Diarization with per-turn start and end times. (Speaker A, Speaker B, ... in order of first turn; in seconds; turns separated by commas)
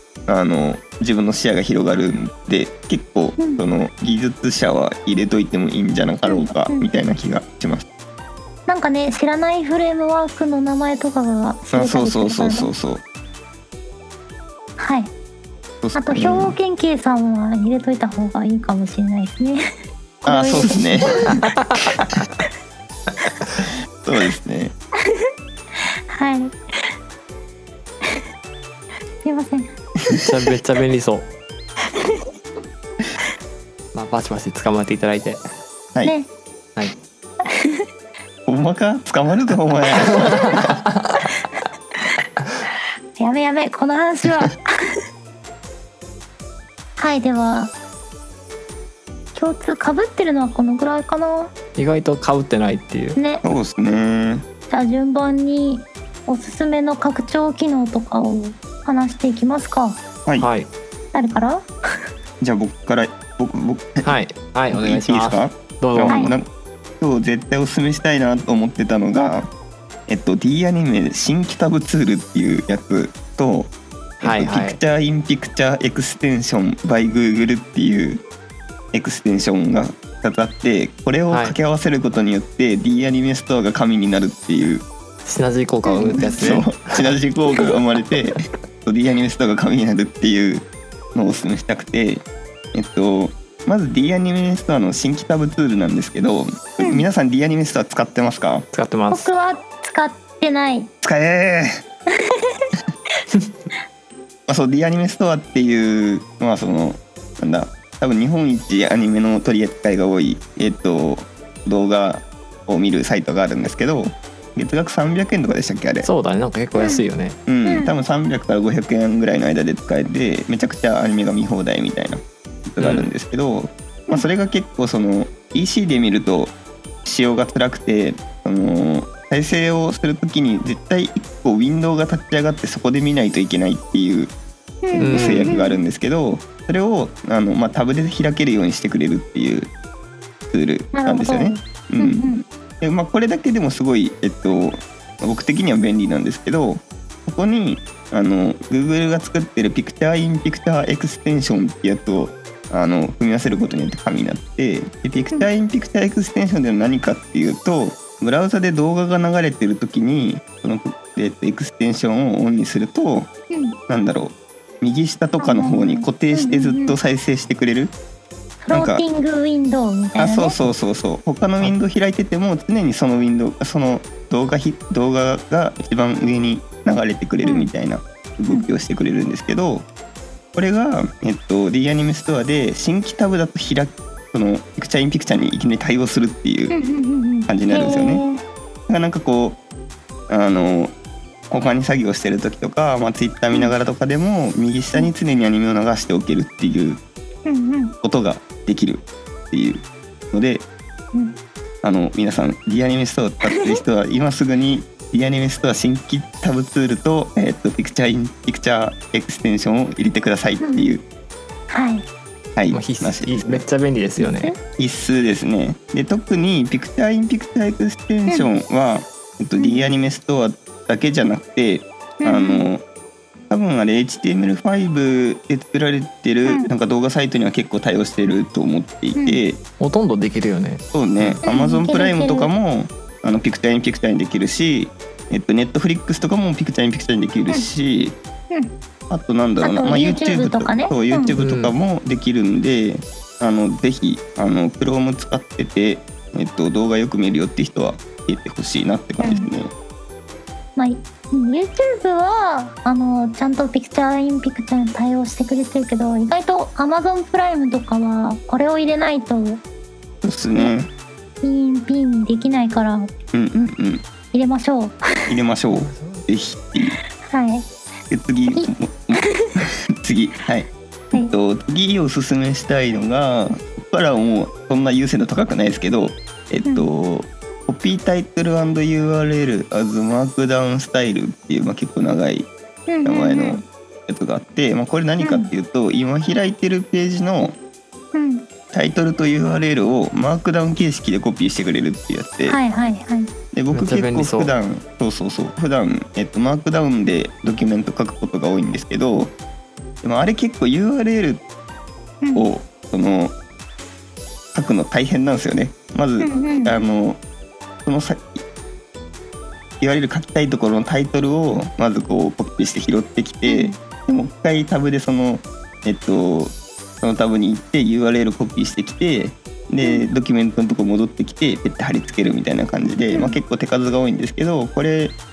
Speaker A: 0.3-7.9, Speaker B: 6.3-6.9, Speaker B: 8.7-12.7, Speaker A: 11.7-13.0, Speaker B: 14.8-15.1, Speaker A: 15.8-16.6, Speaker B: 15.9-19.6, Speaker B: 20.2-21.5, Speaker A: 20.2-21.2, Speaker C: 20.6-22.3, Speaker A: 24.0-24.7, Speaker B: 26.1-26.9, Speaker B: 29.2-29.8, Speaker C: 30.1-31.3, Speaker B: 31.9-32.3, Speaker C: 33.9-35.4, Speaker B: 37.5-37.8, Speaker A: 38.5-40.7, Speaker C: 40.3-40.8, Speaker B: 43.2-44.7, Speaker B: 47.0-47.7, Speaker B: 49.4-51.5, Speaker C: 51.8-53.2, Speaker B: 53.2-53.5, Speaker A: 53.4-54.5, Speaker B: 54.7-60.0, Speaker C: 60.4-60.7, Speaker B: 61.1-61.7, Speaker A: 62.4-64.2, Speaker C: 64.0-66.3, Speaker A: 64.7-66.5, Speaker B: 66.1-66.3, Speaker A: 67.0-69.5, Speaker A: 70.1-73.7, Speaker C: 74.2-74.8, Speaker A: 74.2-78.2, Speaker A: 78.9-84.9, Speaker C: 81.3-81.6, Speaker C: 85.2-87.1, Speaker B: 85.9-86.3, Speaker A: 86.1-98.7, Speaker C: 98.7-99.3, Speaker B: 99.1-100.9, Speaker A: 101.0-101.8, Speaker B: 102.3-102.6, Speaker A: 104.5-116.1, Speaker C: 116.0-117.4, Speaker B: 116.8-117.0, Speaker A: 117.5-134.3, Speaker B: 117.6-117.9, Speaker C: 122.8-123.1, Speaker B: 134.8-135.8, Speaker C: 135.0-135.6, Speaker A: 135.0-139.7, Speaker A: 140.5-163.3, Speaker B: 140.9-142.4, Speaker B: 163.5-163.8, Speaker A: 163.9-167.9, Speaker B: 165.4-167.0, Speaker B: 168.6-170.6, Speaker A: 168.7-169.0, Speaker A: 170.2-179.8, Speaker B: 177.4-177.7, Speaker A: 180.6-186.8, Speaker B: 186.7-188.4, Speaker A: 187.5-188.2, Speaker A: 188.9-189.6, Speaker A: 190.3-190.9, Speaker A: 191.5-197.0, Speaker B: 197.5-197.9, Speaker A: 198.0-200.6, Speaker B: 201.1-201.4, Speaker A: 201.8-211.0, Speaker B: 210.6-211.0, Speaker B: 211.7-212.1, Speaker A: 212.6-213.7, Speaker C: 212.7-214.5, Speaker B: 214.2-214.6, Speaker A: 214.8-222.8, Speaker B: 219.6-219.8, Speaker B: 222.2-222.7, Speaker A: 223.5-229.6, Speaker C: 229.8-231.4, Speaker A: 230.9-238.2, Speaker B: 231.4-232.5, Speaker A: 239.1-249.7, Speaker B: 239.6-241.4, Speaker C: 241.4-241.8, Speaker B: 249.2-249.5, Speaker B: 250.8-259.6, Speaker A: 260.2-260.9, Speaker B: 261.4-263.1, Speaker A: 263.3-264.0, Speaker B: 264.3-265.0, Speaker A: 265.3-267.0, Speaker C: 265.9-266.2, Speaker B: 267.2-267.7, Speaker A: 268.1-282.5, Speaker B: 268.5-269.6, Speaker B: 282.9-283.6, Speaker A: 283.1-287.6, Speaker B: 285.2-285.5, Speaker B: 288.1-288.5, Speaker A: 288.7-292.6, Speaker B: 292.5-293.3, Speaker A: 293.5-299.3, Speaker C: 293.7-294.5, Speaker A: 300.0-301.4, Speaker B: 302.2-302.5, Speaker A: 302.4-303.3, Speaker A: 304.5-307.2, Speaker B: 306.2-306.8, Speaker A: 307.9-308.4, Speaker A: 309.8-325.1, Speaker B: 313.5-313.8, Speaker B: 319.8-320.1, Speaker B: 323.1-323.4